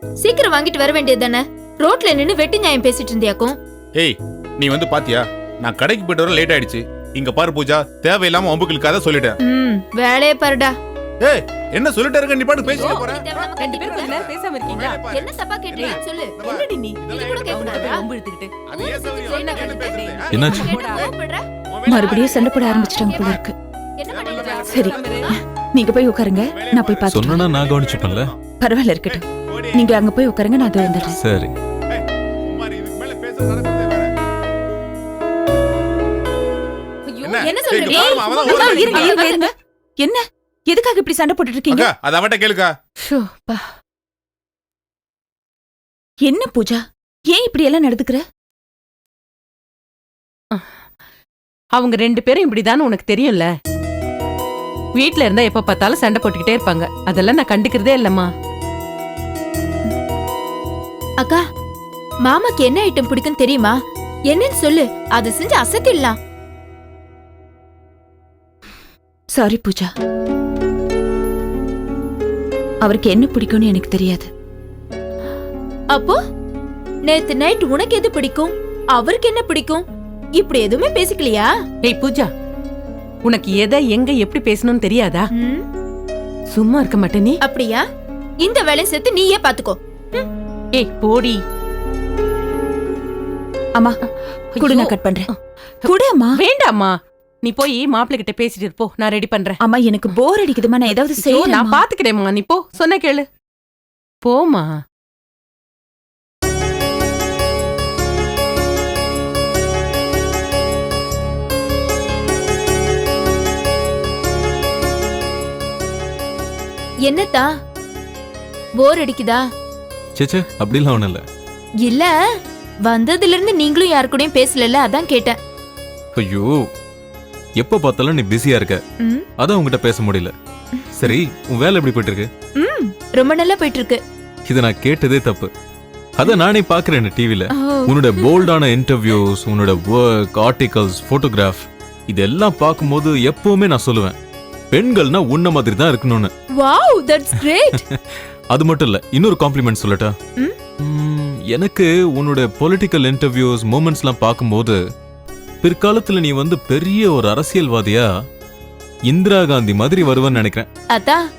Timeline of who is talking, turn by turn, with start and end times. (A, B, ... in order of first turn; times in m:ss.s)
0:00.2-0:03.6 A
0:04.0-0:09.3 B
0:09.4-0:10.7 A
0:11.2-0:12.7 B
0:12.6-0:14.3 A
0:12.7-0:15.1 C
0:15.1-0:16.4 A
0:15.8-0:21.1 C
0:17.1-0:18.0 A
0:18.7-0:21.4 A
0:20.3-0:20.7 D
0:21.8-0:23.5 E
0:24.0-0:25.4 A
0:24.3-0:25.3 C
0:24.6-0:27.4 E
0:26.6-0:27.0 B
0:27.0-0:28.3 D
0:27.6-0:28.0 B
0:28.6-0:31.2 E
0:31.2-0:31.5 D
0:32.5-0:34.0 B
0:37.3-0:38.8 B
0:37.4-0:39.4 A
0:37.8-0:41.9 E
0:41.8-0:42.7 B
0:43.0-0:43.6 C
0:46.2-0:48.2 E
0:51.8-0:53.5 C
0:55.0-0:58.3 C
1:02.2-1:03.7 A
1:04.3-1:06.2 A
1:09.3-1:09.9 E
1:12.8-1:14.3 E
1:17.1-1:19.8 A
1:20.4-1:21.5 A
1:21.8-1:22.3 C
1:23.2-1:25.3 C
1:26.5-1:27.4 C
1:27.4-1:27.8 A
1:28.4-1:29.8 A
1:30.7-1:31.4 C
1:34.5-1:39.6 C
1:34.6-1:35.3 E
1:35.8-1:36.4 E
1:39.6-1:41.8 E
1:41.1-1:43.2 C
1:44.2-1:44.7 C
1:57.0-1:57.4 A
1:58.8-1:59.4 A
2:00.2-2:01.2 D
2:01.8-2:02.1 A
2:02.8-2:05.4 A
2:06.2-2:06.5 D
2:07.6-2:08.8 D
2:09.4-2:10.3 D
2:10.9-2:12.3 D
2:12.6-2:14.0 A
2:14.4-2:15.5 D
2:16.2-2:24.1 D
2:17.6-2:18.3 A
2:24.7-2:26.3 D
2:26.6-2:27.7 A
2:28.5-2:30.1 D
2:30.8-2:34.8 D
2:35.6-2:38.0 D
2:39.1-2:40.7 D
2:40.9-2:41.2 A